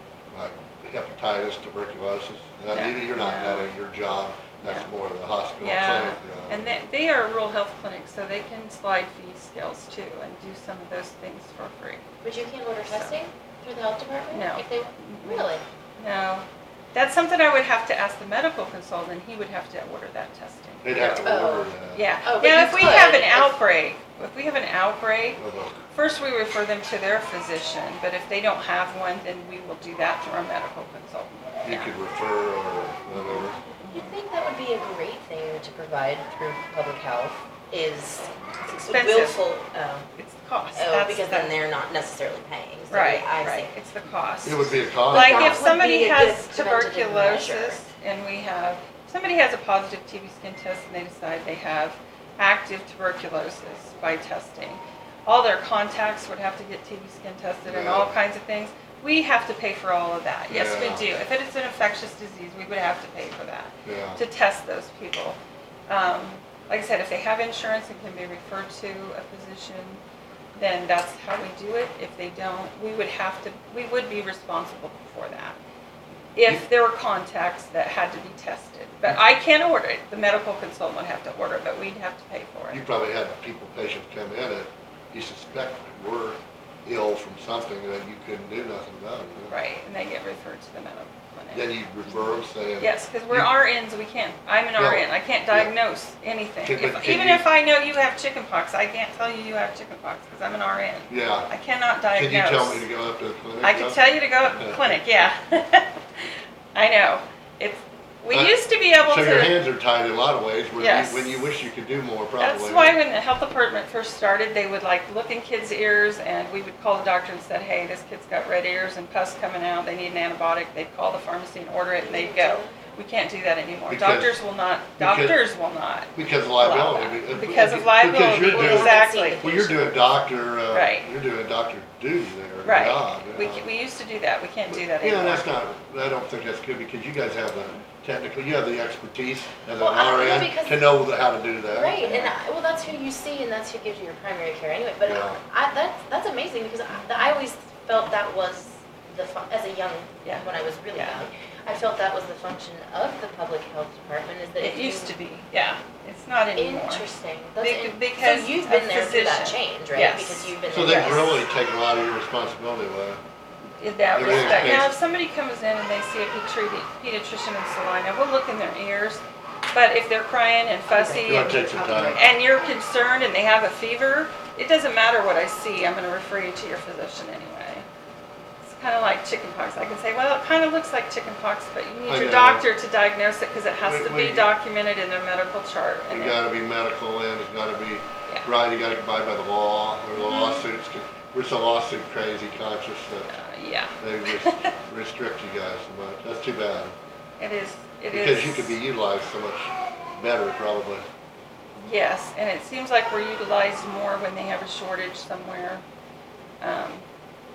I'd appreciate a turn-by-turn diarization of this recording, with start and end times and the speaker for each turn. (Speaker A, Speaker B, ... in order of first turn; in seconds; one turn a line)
Speaker A: 0.3-6.8
Speaker B: 2.7-3.7
Speaker B: 4.6-4.9
Speaker B: 5.6-12.1
Speaker C: 12.2-15.6
Speaker B: 12.8-13.2
Speaker B: 14.3-21.3
Speaker A: 20.8-22.1
Speaker C: 21.2-21.7
Speaker B: 21.9-31.9
Speaker C: 22.2-23.6
Speaker A: 25.4-25.8
Speaker A: 31.6-33.6
Speaker B: 33.1-34.2
Speaker C: 33.9-40.1
Speaker B: 38.7-39.5
Speaker B: 40.2-41.5
Speaker C: 40.8-43.7
Speaker B: 42.9-70.0
Speaker A: 44.5-45.6
Speaker C: 45.1-47.8
Speaker A: 57.6-58.1
Speaker A: 60.5-61.1
Speaker A: 63.9-64.2
Speaker B: 70.5-75.6
Speaker B: 76.4-82.8
Speaker A: 82.7-89.6
Speaker B: 89.5-102.9
Speaker A: 91.5-93.5
Speaker A: 94.8-95.7
Speaker A: 96.6-97.5
Speaker A: 101.1-101.5
Speaker A: 102.1-104.0
Speaker B: 103.6-109.6
Speaker A: 104.6-105.0
Speaker A: 108.3-113.0
Speaker B: 110.8-111.5
Speaker B: 112.4-129.4
Speaker C: 122.0-122.9
Speaker A: 123.9-124.4
Speaker A: 125.0-125.4
Speaker A: 126.2-133.7
Speaker C: 128.4-130.1
Speaker B: 130.7-131.1
Speaker B: 132.6-135.5
Speaker A: 134.7-142.1
Speaker B: 137.6-137.8
Speaker C: 139.8-140.9
Speaker C: 141.6-155.2
Speaker B: 142.0-142.3
Speaker A: 145.0-145.4
Speaker B: 146.9-147.4
Speaker B: 150.2-151.3
Speaker B: 154.6-157.1
Speaker C: 156.6-161.4
Speaker B: 157.6-161.3
Speaker A: 160.7-163.2
Speaker B: 163.8-177.9
Speaker A: 164.2-164.9
Speaker C: 164.2-164.8
Speaker C: 170.9-172.4
Speaker A: 171.2-172.3
Speaker B: 178.6-186.4
Speaker A: 182.1-182.7
Speaker A: 183.8-184.5
Speaker A: 186.1-193.3
Speaker B: 190.1-190.7
Speaker B: 193.3-194.7
Speaker A: 194.0-196.9
Speaker B: 197.4-198.8
Speaker A: 198.1-201.1
Speaker B: 201.8-205.8
Speaker B: 206.6-207.0